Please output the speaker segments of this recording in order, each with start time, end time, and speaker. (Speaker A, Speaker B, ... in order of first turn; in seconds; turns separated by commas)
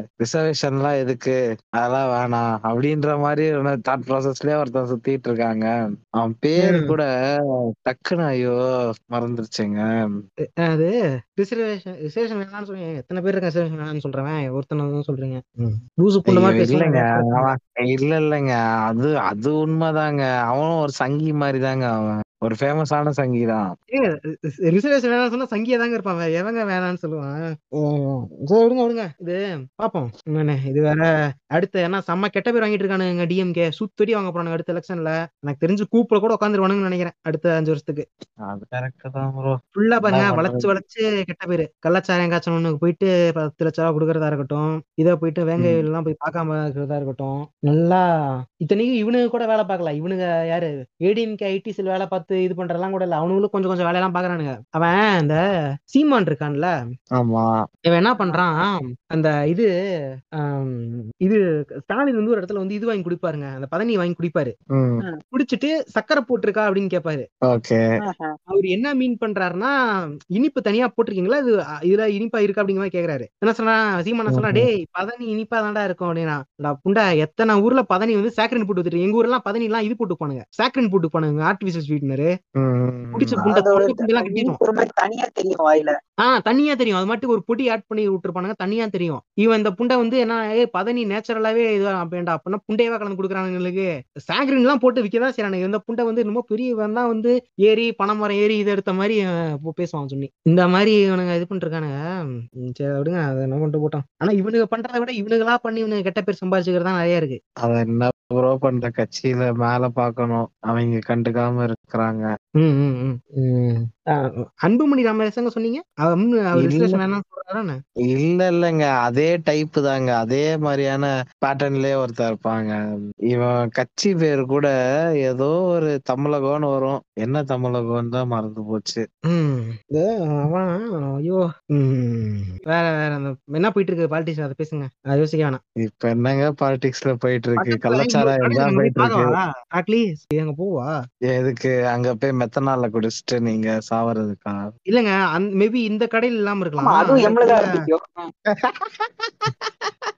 Speaker A: 0.2-7.1, Speaker B: 6.6-7.0, Speaker A: 7.8-8.6, Speaker A: 9.1-9.8, Speaker B: 10.6-17.5, Speaker A: 16.3-23.7, Speaker B: 23.9-24.2, Speaker B: 24.7-38.1, Speaker A: 38.5-40.7, Speaker B: 39.8-48.0, Speaker B: 48.6-56.7, Speaker A: 57.2-57.6, Speaker B: 57.9-59.7, Speaker B: 60.4-64.5, Speaker A: 64.7-65.0, Speaker B: 65.3-67.3, Speaker A: 67.5-67.8, Speaker C: 68.0-68.4, Speaker B: 68.5-69.8, Speaker B: 70.3-82.3, Speaker A: 74.3-74.7, Speaker A: 82.6-83.4, Speaker B: 83.1-84.6, Speaker C: 83.4-86.0, Speaker B: 86.2-102.0, Speaker B: 102.6-107.4, Speaker A: 107.6-112.3, Speaker B: 112.6-113.9, Speaker B: 114.7-117.8, Speaker A: 116.6-117.0, Speaker A: 118.1-122.7, Speaker A: 123.3-124.7, Speaker A: 125.2-129.0, Speaker B: 129.3-135.6, Speaker A: 135.8-139.4, Speaker B: 137.6-140.9, Speaker A: 141.3-144.7, Speaker B: 144.9-147.7, Speaker C: 146.8-148.3, Speaker A: 148.5-149.9